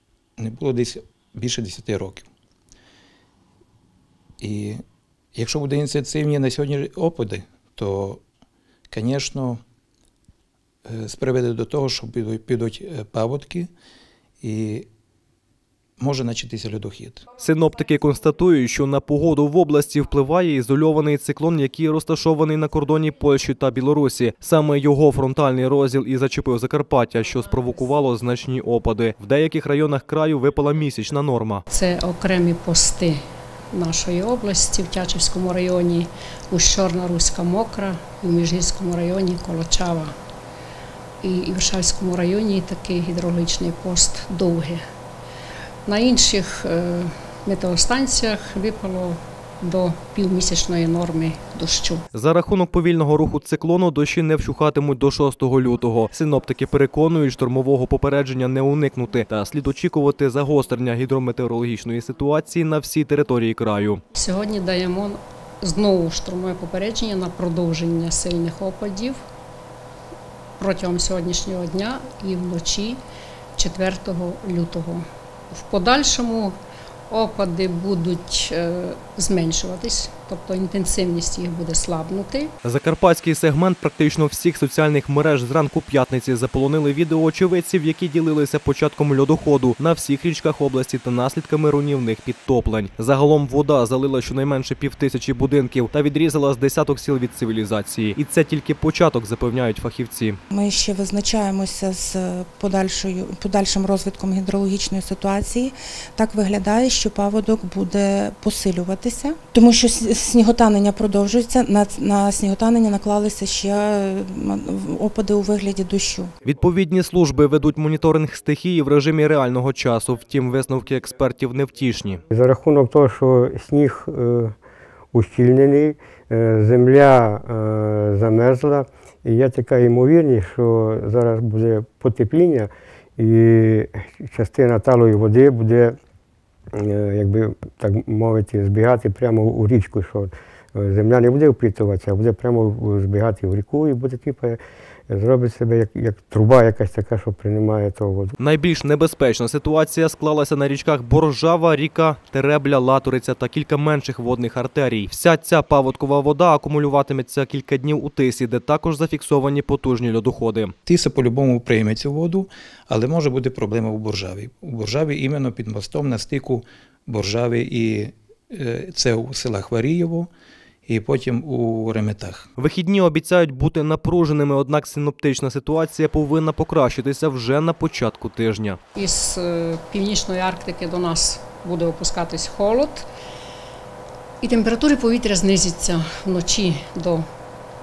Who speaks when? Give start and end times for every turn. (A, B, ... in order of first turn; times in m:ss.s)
0:00.4-0:02.3 A
0:04.4-0:04.8 A
0:05.4-0:08.2 A
0:08.9-0:09.6 A
0:10.9-0:13.7 A
0:14.4-0:14.9 A
0:16.0-0:17.2 A
0:17.4-0:31.6 B
0:31.7-0:33.2 C
0:33.7-0:40.1 C
0:41.2-0:44.8 C
0:45.9-0:52.0 C
0:52.1-1:04.0 B
1:04.2-1:09.2 C
1:10.6-1:13.0 C
1:13.6-1:16.6 C
1:17.1-1:22.5 C
1:22.6-1:40.4 B
1:40.5-1:56.3 D
1:56.4-2:02.2 B
2:02.3-2:04.5 E
2:05.1-2:16.0 E
2:16.7-2:28.4 E
2:28.4-2:40.7 B
2:40.9-2:50.3 A
2:50.9-2:52.5 A
2:52.6-2:58.8 B
2:59.0-3:03.1 C
3:04.4-3:07.2 C